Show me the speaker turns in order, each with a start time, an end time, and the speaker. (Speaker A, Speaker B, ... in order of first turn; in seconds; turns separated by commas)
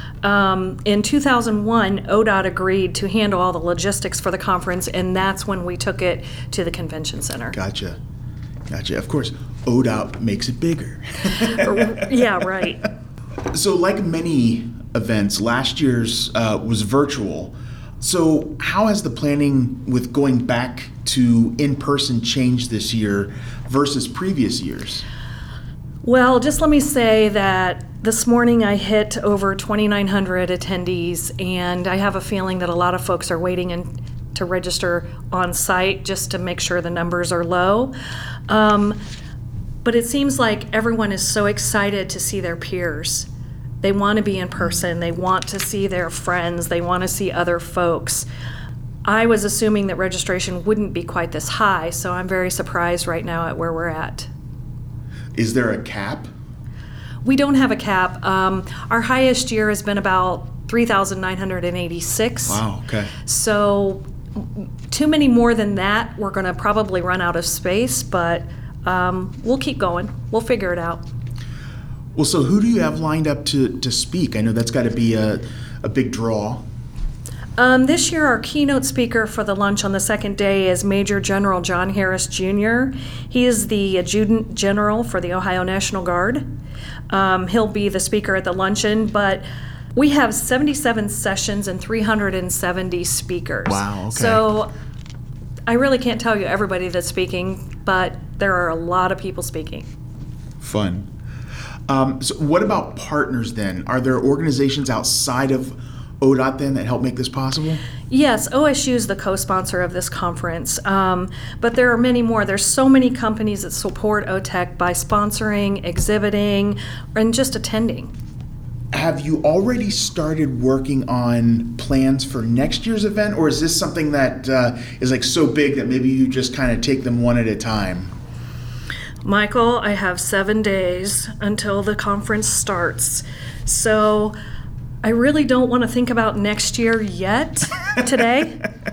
Speaker A: 0.2-7.6, Speaker B: 7.5-8.0, Speaker B: 8.7-12.1, Speaker A: 11.4-12.9, Speaker B: 13.5-25.0, Speaker A: 26.0-37.9, Speaker A: 38.5-39.0, Speaker A: 39.8-43.3, Speaker A: 43.8-48.2, Speaker A: 49.0-54.3, Speaker B: 55.3-56.3, Speaker A: 57.2-62.6, Speaker B: 62.5-63.1, Speaker A: 63.2-71.0, Speaker B: 72.1-76.6, Speaker A: 77.6-86.5, Speaker A: 87.1-94.7, Speaker B: 93.7-94.4, Speaker A: 95.7-99.9, Speaker B: 100.6-101.1, Speaker B: 101.9-107.8, Speaker A: 108.1-118.1, Speaker B: 118.9-128.1, Speaker A: 129.2-134.3, Speaker A: 135.0-138.7